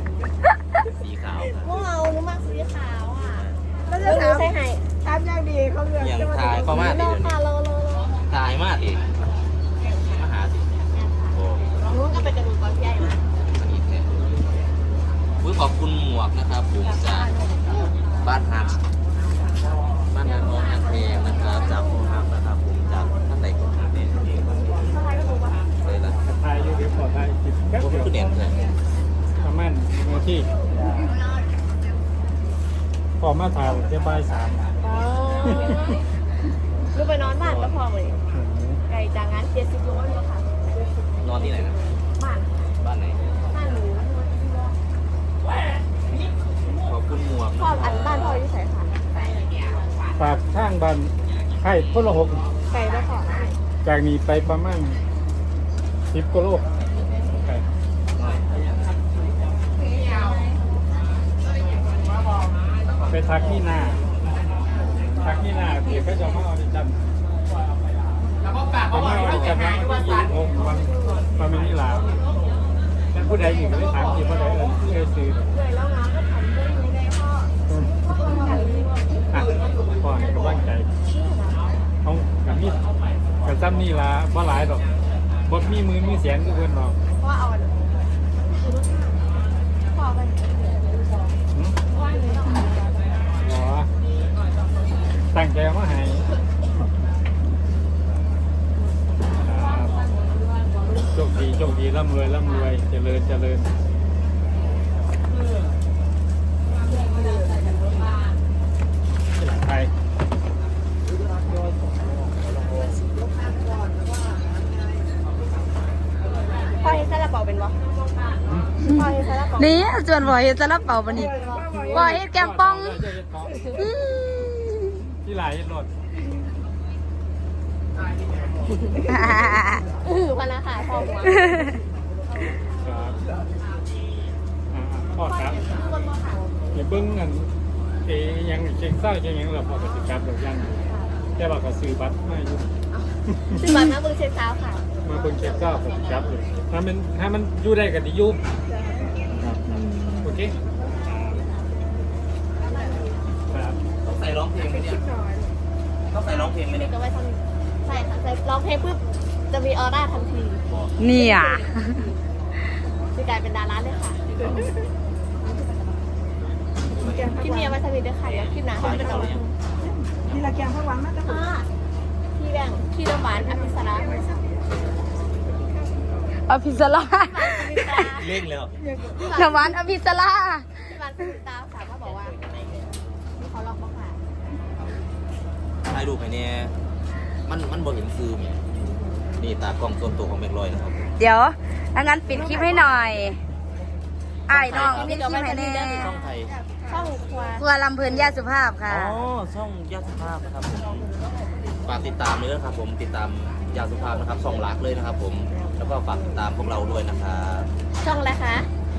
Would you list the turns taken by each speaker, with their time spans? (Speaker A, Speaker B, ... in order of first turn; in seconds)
Speaker A: 0.9-1.8, 6.0-7.4, 8.3-9.0, 10.1-10.7, 11.3-11.8, 13.5-14.2, 15.4-17.3, 18.2-18.8, 20.1-24.8, 25.8-26.2, 27.8-28.7, 37.4-37.7, 41.2-41.8, 42.8-43.2, 46.7-48.4, 69.1-69.6, 154.0-155.0, 156.1-156.9, 160.7-160.9, 166.9-167.3, 168.2-169.4, 178.1-178.7, 185.8-186.7, 187.4-188.6, 189.4-191.1, 194.5-196.5, 198.9-201.1, 201.8-207.7
Speaker B: 1.6-3.5, 4.0-4.9, 6.7-8.2, 9.8-10.3, 10.9-13.2, 16.8-17.9, 20.2-21.9, 24.8-25.6, 34.8-36.0, 36.9-38.2, 38.9-40.7, 41.4-42.7, 43.5-44.8, 47.6-48.9, 52.7-53.6, 75.5-77.5, 78.0-79.1, 81.1-81.8, 87.2-87.9, 88.5-89.0, 89.9-91.0, 91.9-93.2, 116.7-117.8, 118.8-119.9, 130.0-131.6, 135.2-136.6, 140.8-141.1, 142.9-144.8, 152.6-153.1, 156.2-161.7, 163.1-164.6, 167.3-169.5, 171.2-171.7, 172.3-174.3, 177.1-178.4, 179.0-179.8, 180.8-182.3, 183.4-184.2, 194.8-196.1, 196.9-197.7, 208.0-208.7
Speaker C: 3.9-4.5, 5.0-6.8, 78.1-78.8, 121.1-122.1, 148.7-152.1, 152.6-153.1, 154.7-155.5, 166.9-167.8, 168.8-171.4, 173.4-174.6, 178.8-179.2
Speaker D: 26.2-28.2, 29.4-30.5, 33.2-34.6, 38.3-38.8, 50.2-52.5, 53.8-55.0, 56.1-56.8, 57.3-57.7, 63.1-64.0, 65.2-67.1, 68.9-72.1, 73.1-75.5, 79.3-80.9, 82.0-82.8, 83.4-84.9, 85.5-87.0, 93.4-93.9, 95.3-96.3, 99.4-100.0, 101.1-103.7, 109.4-109.9, 118.5-118.7, 121.8-123.6, 125.2-125.9, 132.8-133.2, 134.7-135.6, 136.7-137.5, 138.0-140.8, 141.4-142.7, 145.0-148.4, 150.2-150.6, 153.5-153.8
Speaker E: 119.5-121.4, 122.0-123.0, 129.1-129.8, 161.0-162.1, 176.3-178.0, 179.3-181.0, 191.2-193.4, 194.5-196.1, 197.6-199.2